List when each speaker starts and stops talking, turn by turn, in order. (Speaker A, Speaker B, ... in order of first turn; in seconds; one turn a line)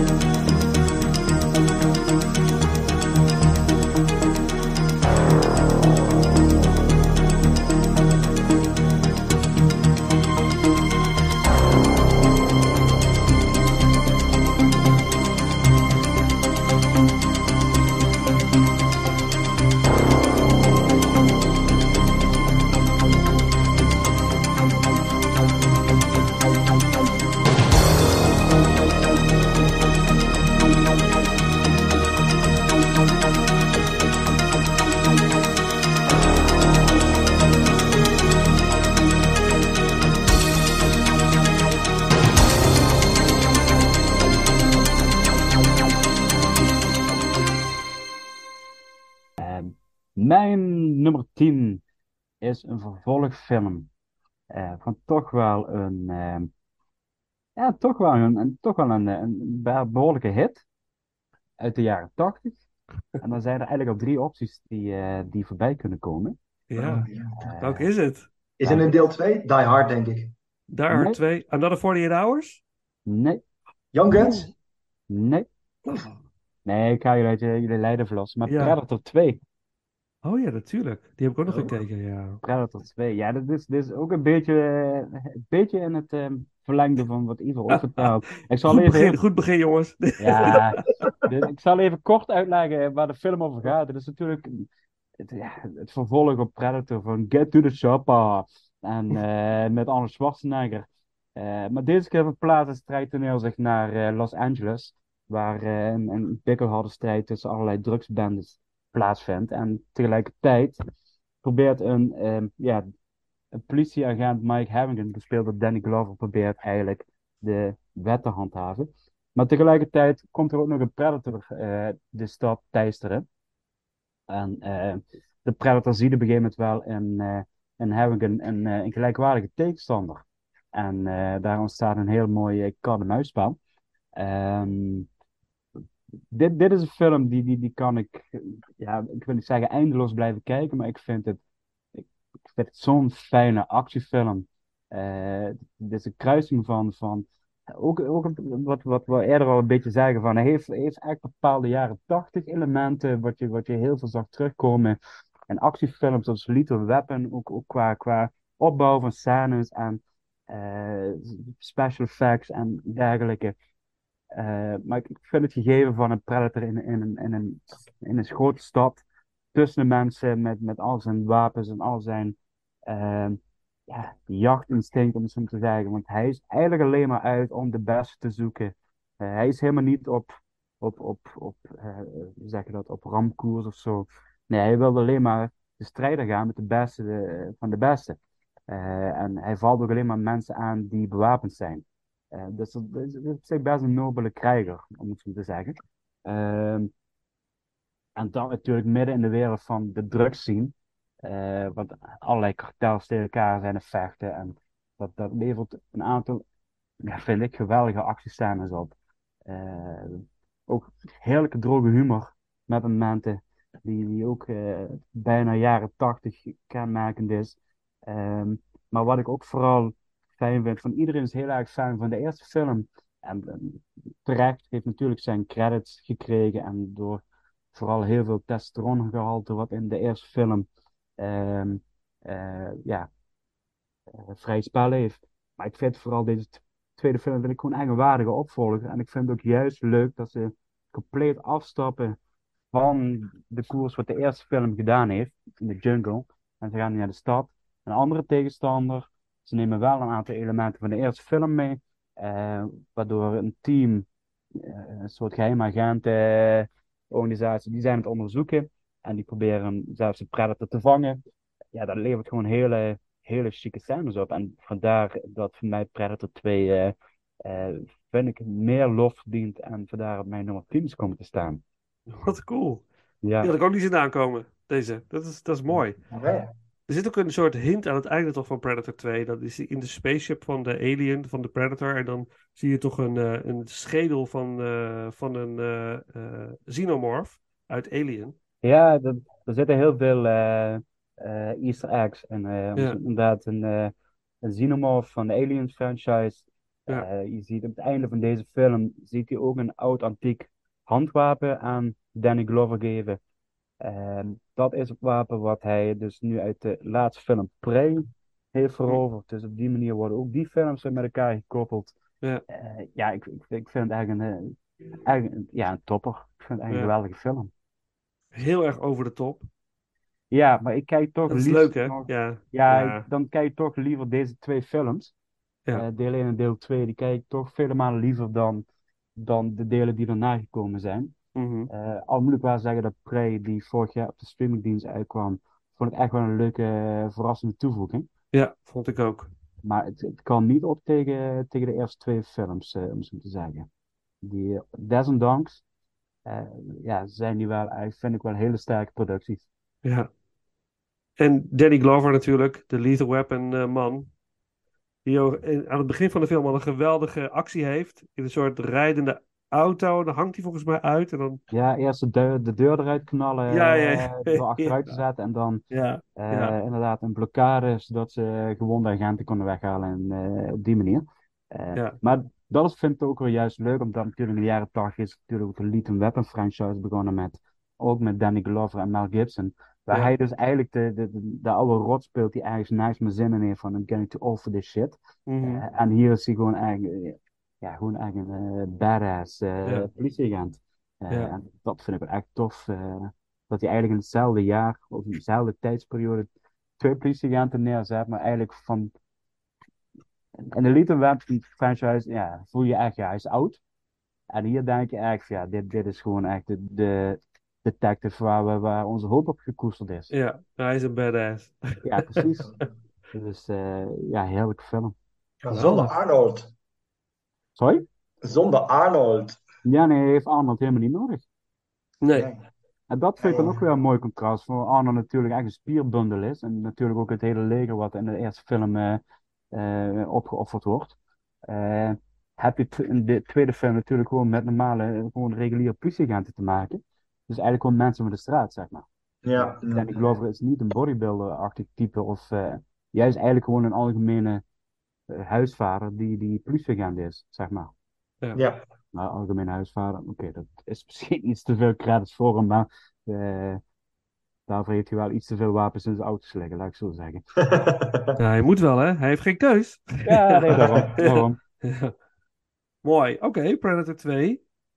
Speaker A: 49.4-51.8
Speaker A: 52.4-53.9
Speaker A: 54.5-56.5
Speaker A: 57.6-60.6
Speaker A: 61.6-62.6
Speaker A: 63.2-66.4
Speaker B: 66.7-67.1
Speaker C: 66.8-67.3
Speaker A: 67.4-67.9
Speaker B: 67.6-68.3
Speaker C: 68.6-70.3
Speaker A: 68.7-68.9
Speaker B: 70.7-72.6
Speaker A: 70.9-71.2
Speaker A: 73.1-73.4
Speaker C: 73.9-74.5
Speaker A: 75.1-75.5
Speaker B: 75.9-76.2
Speaker A: 76.7-79.4
Speaker B: 78.5-78.8
Speaker B: 80.2-82.4
Speaker A: 82.4-89.2
Speaker B: 87.7-88.1
Speaker B: 88.7-90.9
Speaker A: 90.2-94.7
Speaker A: 95.2-110.8
Speaker A: 111.4-112.8
Speaker A: 113.5-123.3
Speaker A: 124.3-133.6
Speaker A: 134.2-135.1
Speaker A: 136.3-141.4
Speaker A: 141.9-155.0
Speaker A: 155.5-163.6
Speaker A: 164.3-169.0
Speaker A: 169.5-172.4
Speaker A: 172.9-196.9
Speaker A: 198.2-200.7
Speaker A: 201.2-206.4
Speaker A: 207.0-208.9
Speaker A: 209.5-227.2
Speaker A: 227.7-230.7
Speaker A: 231.2-233.1
Speaker A: 234.1-242.2
Speaker A: 242.7-261.2
Speaker A: 261.7-266.9
Speaker A: 267.4-271.6
Speaker B: 272.1-272.8
Speaker A: 273.2-273.5
Speaker B: 273.4-276.0
Speaker C: 276.1-276.5
Speaker B: 276.9-288.4
Speaker A: 288.6-303.2
Speaker A: 303.8-311.9
Speaker A: 312.5-317.5
Speaker B: 318.3-319.5
Speaker A: 320.3-325.1
Speaker B: 321.3-323.0
Speaker A: 325.7-328.7
Speaker A: 329.2-331.1
Speaker B: 331.4-331.7
Speaker A: 331.7-338.1
Speaker B: 338.3-339.3
Speaker A: 339.6-343.7
Speaker A: 344.2-345.6
Speaker A: 346.3-349.5
Speaker B: 349.8-350.1
Speaker B: 351.2-354.1
Speaker B: 355.1-361.4
Speaker A: 361.5-365.6
Speaker B: 363.5-365.0
Speaker B: 365.7-366.6
Speaker A: 366.2-398.9
Speaker B: 385.3-385.6
Speaker A: 400.5-403.6
Speaker A: 404.3-410.1
Speaker B: 410.1-412.3
Speaker A: 411.8-412.5
Speaker A: 413.1-414.9
Speaker C: 415.4-416.5
Speaker B: 415.5-415.9
Speaker A: 417.6-417.9
Speaker C: 418.2-419.4
Speaker A: 419.6-421.2
Speaker B: 422.0-422.3
Speaker C: 422.1-422.4
Speaker A: 422.9-429.0
Speaker C: 423.2-423.6
Speaker A: 429.5-431.0
Speaker A: 431.5-444.4
Speaker C: 439.2-440.0
Speaker A: 445.1-447.7
Speaker C: 448.4-448.7
Speaker A: 448.9-453.6
Speaker A: 454.5-457.2
Speaker C: 457.4-458.2
Speaker B: 458.2-461.9
Speaker A: 460.1-461.4
Speaker C: 460.6-460.9
Speaker B: 462.8-464.4